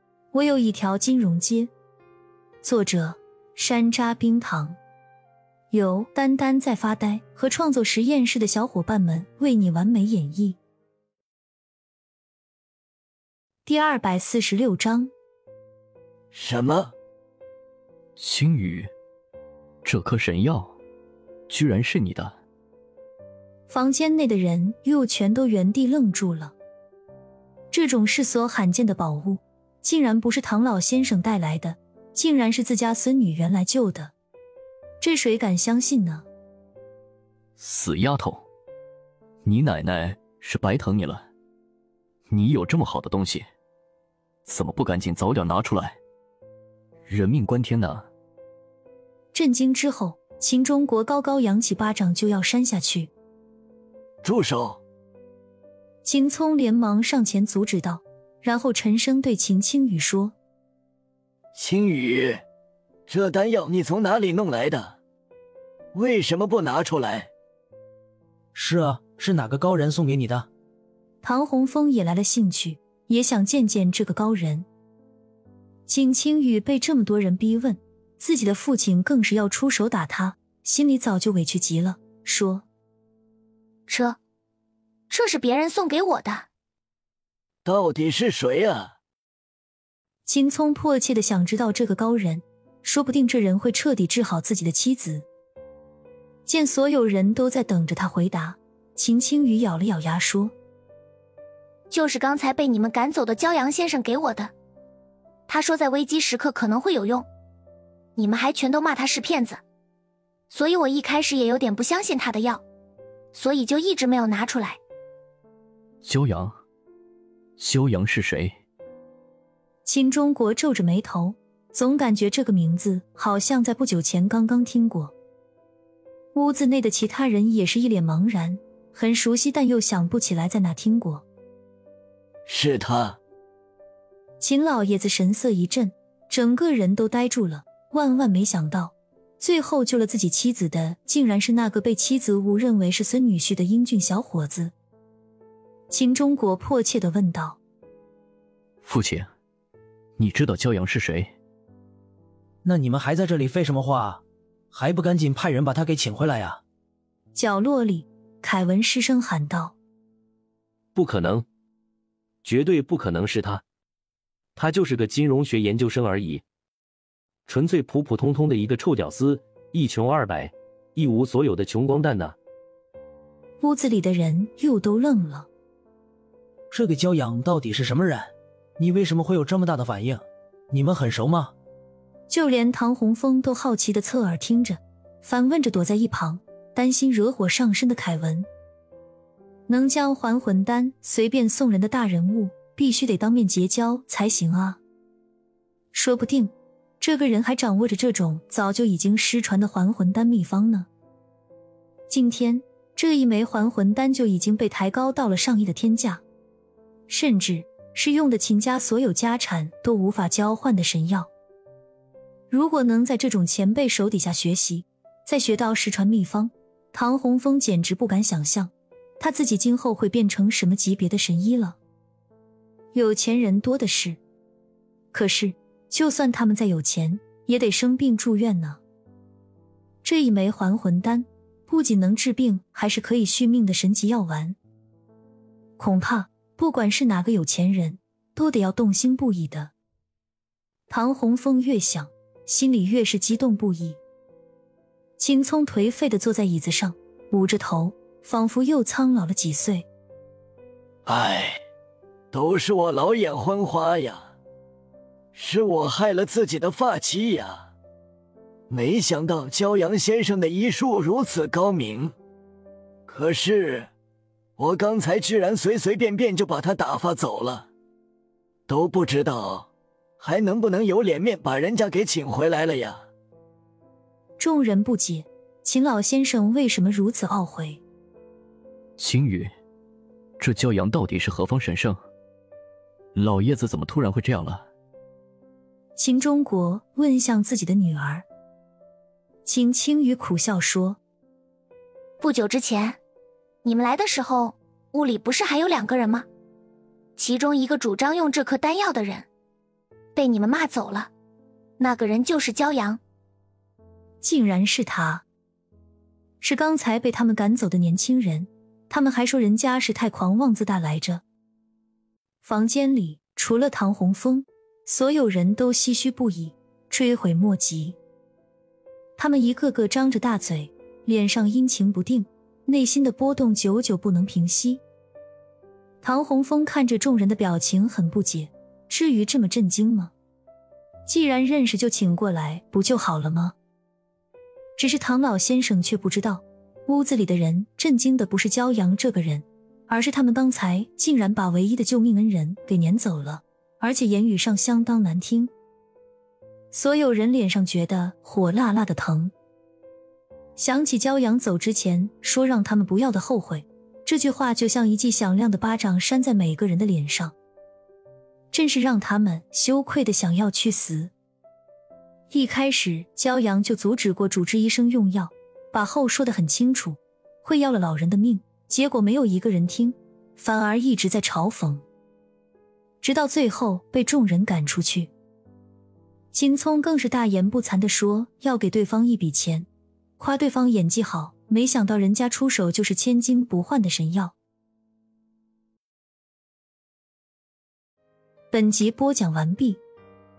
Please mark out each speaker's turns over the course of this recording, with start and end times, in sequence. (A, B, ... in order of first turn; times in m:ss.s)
0:00.3-0:01.7 A
0:02.6-0:04.8 A
0:05.7-0:10.6 A
0:13.6-0:15.1 A
0:16.3-0:16.9 B
0:18.2-0:18.9 C
0:19.8-0:20.8 C
0:21.5-0:22.4 C
0:23.7-0:26.5 A
0:27.7-0:34.1 A
0:35.0-0:36.2 A
0:37.6-0:38.4 C
0:39.4-0:41.3 C
0:42.3-0:43.5 C
0:44.4-0:46.0 C
0:47.0-0:48.1 C
0:49.3-0:53.1 A
0:54.2-0:54.8 B
0:56.0-1:00.3 A
1:01.5-1:02.4 B
1:03.1-1:05.0 B
1:05.9-1:07.3 B
1:08.5-1:10.5 D
1:11.2-1:14.7 A
1:15.9-1:22.6 A
1:23.9-1:24.2 E
1:25.1-1:26.5 E
1:27.6-1:29.0 B
1:30.2-1:35.3 A
1:36.4-1:40.5 A
1:41.9-1:44.5 E
1:45.5-1:47.3 E
1:48.2-1:49.6 E
1:50.5-1:52.6 E
1:53.3-1:54.8 E
1:56.0-1:56.6 C
1:57.6-1:58.6 C
1:59.8-2:05.1 A
2:06.3-2:11.2 A
2:12.4-2:13.2 B
2:14.4-2:24.7 A
2:25.9-2:27.6 A
2:28.8-2:29.3 C
2:30.2-2:31.3 C
2:32.6-2:36.6 D
2:37.3-2:39.8 A
2:40.9-2:41.4 F
2:42.4-2:43.6 F
2:44.6-2:46.4 F
2:47.5-2:52.4 F
2:53.6-2:55.5 A
2:56.7-3:01.5 D
3:02.3-3:08.5 A
3:09.7-3:14.8 A
3:15.9-3:20.9 A
3:22.1-3:26.2 A
3:27.1-3:31.3 A
3:32.5-3:41.8 A
3:42.9-3:44.2 A
3:45.1-3:48.8 A
3:50.0-3:54.6 A
3:55.8-3:59.7 A
4:00.9-4:04.0 A
4:05.2-4:09.9 A
4:11.0-4:11.6 B
4:12.3-4:14.3 B
4:15.3-4:17.7 B
4:18.7-4:22.1 B
4:23.1-4:23.9 B
4:24.6-4:27.7 B
4:28.7-4:33.0 B
4:34.4-4:37.8 A
4:39.0-4:39.5 C
4:40.4-4:42.0 C
4:43.1-4:44.6 C
4:46.0-4:48.2 A
4:49.4-4:51.0 A
4:52.2-4:53.0 E
4:53.6-4:56.3 E
4:57.2-4:59.2 E
5:00.2-5:01.1 E
5:01.8-5:03.0 E
5:04.2-5:05.2 A
5:06.4-5:11.2 A
5:12.4-5:18.0 A
5:19.2-5:24.8 A
5:26.0-5:30.1 A
5:31.1-5:33.6 A
5:34.8-5:45.5 A
5:46.7-5:49.3 A
5:50.6-5:57.3 A
5:58.5-6:01.1 A
6:02.3-6:11.8 A
6:13.0-6:15.1 A
6:16.3-6:19.7 A
6:20.2-6:24.3 A
6:28.5-6:29.8 A